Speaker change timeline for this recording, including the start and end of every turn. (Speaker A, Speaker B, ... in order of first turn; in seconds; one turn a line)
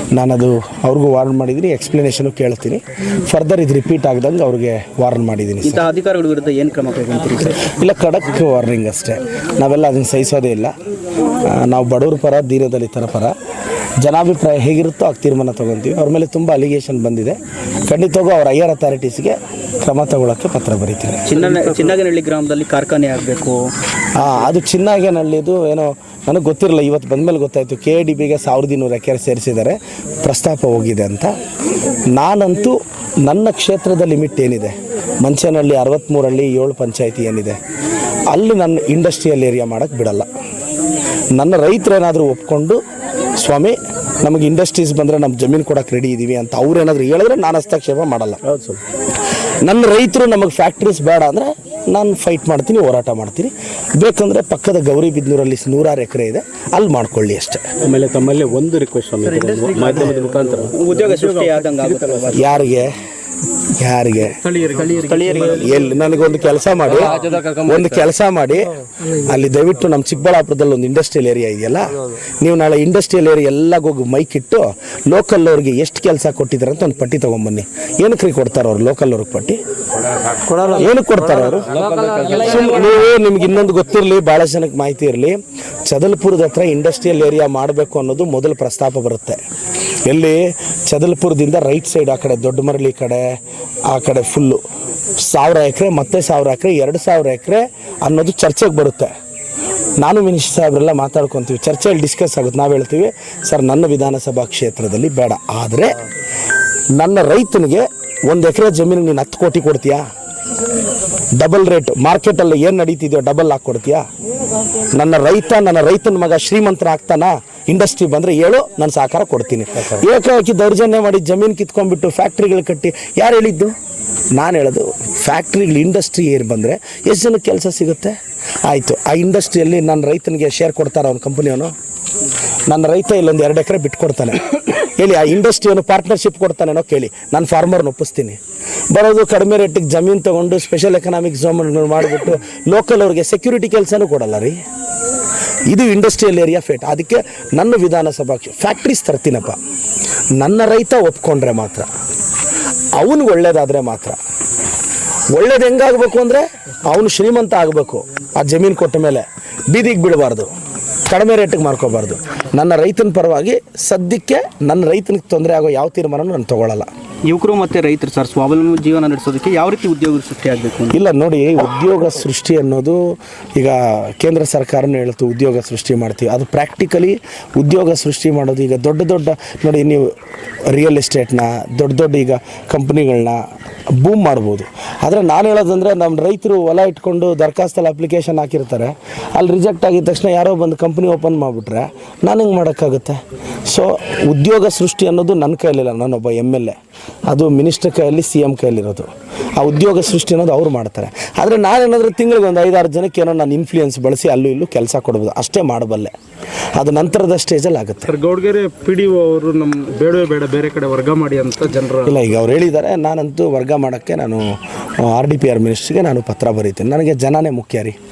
Speaker A: 0.1-5.8
Speaker B: 5.6-7.7
Speaker A: 7.6-10.7
Speaker A: 11.4-13.3
Speaker A: 14.0-17.4
Speaker A: 17.9-21.3
Speaker B: 21.3-23.7
Speaker A: 24.2-31.3
Speaker A: 32.1-37.6
Speaker A: 38.3-40.3
Speaker A: 41.3-42.8
Speaker A: 43.4-48.4
Speaker C: 48.4-48.8
Speaker A: 49.6-57.7
Speaker C: 57.8-62.3
Speaker B: 60.7-62.7
Speaker A: 62.3-62.9
Speaker A: 63.8-64.4
Speaker C: 64.4-65.4
Speaker B: 64.7-65.8
Speaker A: 65.4-79.6
Speaker C: 67.0-67.9
Speaker A: 80.6-89.4
Speaker C: 81.8-82.3
Speaker A: 90.1-93.4
Speaker A: 93.9-94.6
Speaker A: 95.2-99.1
Speaker A: 100.0-106.0
Speaker A: 107.0-110.0
Speaker A: 111.4-114.1
Speaker A: 114.9-123.7
Speaker A: 124.3-131.7
Speaker A: 132.7-138.4
Speaker A: 138.9-144.6
Speaker A: 145.7-149.6
Speaker A: 150.4-151.9
Speaker A: 152.9-154.2
Speaker A: 155.3-160.5
Speaker A: 161.1-166.9
Speaker B: 167.3-171.0
Speaker A: 170.9-180.1
Speaker A: 180.7-183.4
Speaker A: 184.0-196.8
Speaker A: 197.3-206.1
Speaker A: 206.8-208.2
Speaker C: 208.1-212.2
Speaker A: 212.0-218.0